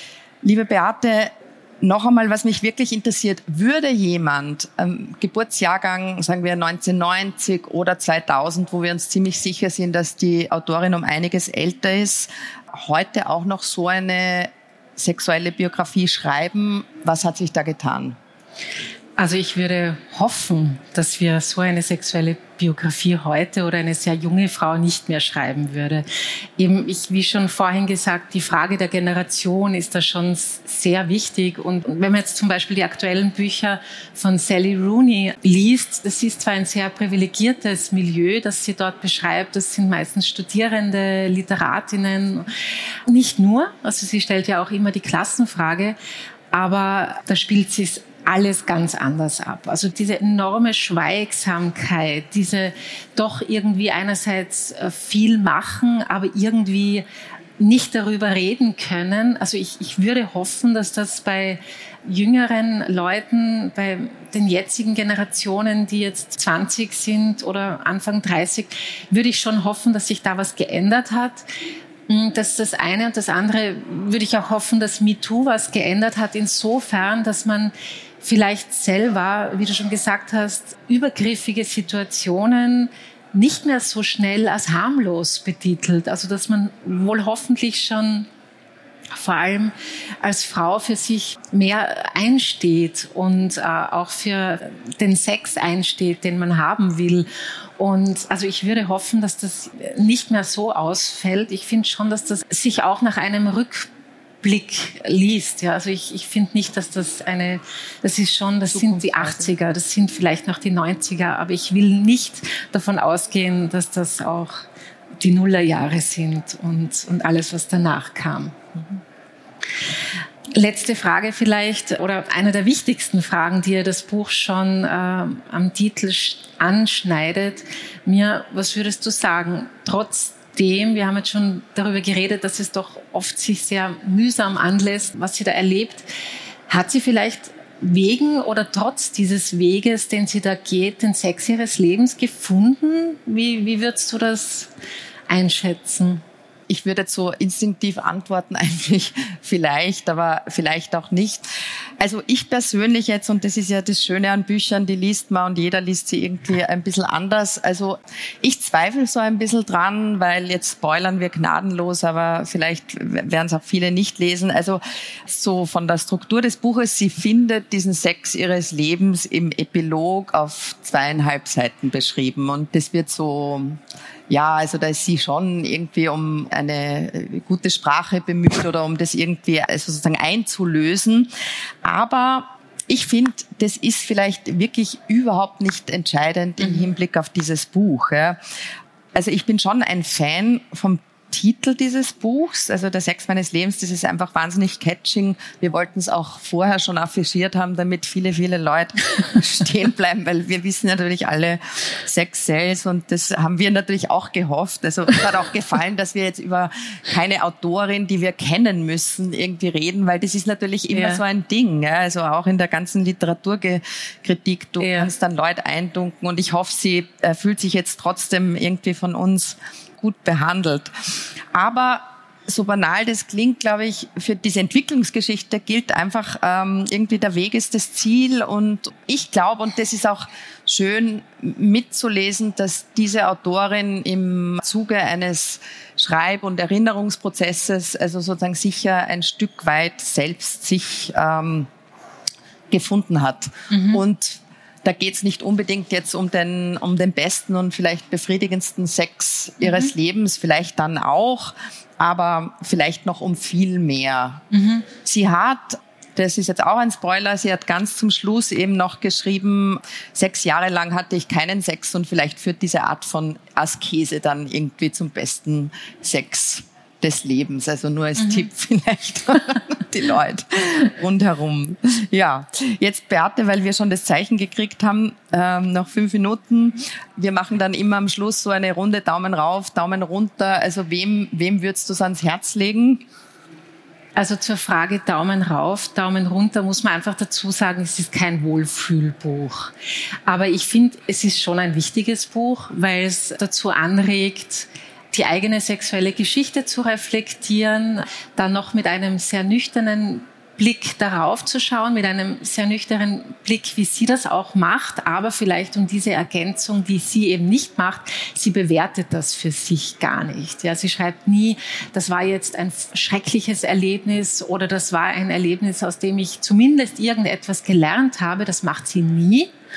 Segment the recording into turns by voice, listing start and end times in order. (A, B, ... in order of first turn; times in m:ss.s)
0:00.4-0:18.2 A
0:19.2-0:26.0 B
0:26.6-0:42.5 B
0:43.1-0:46.0 B
0:46.5-0:57.0 B
0:57.6-1:11.4 B
1:12.1-1:28.3 B
1:29.1-1:37.3 B
1:37.8-1:43.9 B
1:44.4-1:54.6 B
1:48.7-1:49.5 A
1:55.2-1:58.6 B
2:00.5-2:16.1 B
2:16.7-2:24.7 B
2:25.3-2:26.2 B
2:26.7-2:31.5 A
2:32.0-3:01.3 A
3:01.8-3:08.4 A
3:06.6-3:06.9 B
3:09.1-3:40.9 A
3:30.9-3:31.2 B
3:34.8-3:35.1 B
3:41.5-4:01.7 A
4:02.7-4:14.4 A
4:03.7-4:04.0 B
4:09.6-4:09.9 B
4:14.5-4:14.8 B
4:15.0-4:43.0 A
4:44.2-4:49.7 B
4:50.3-5:19.5 B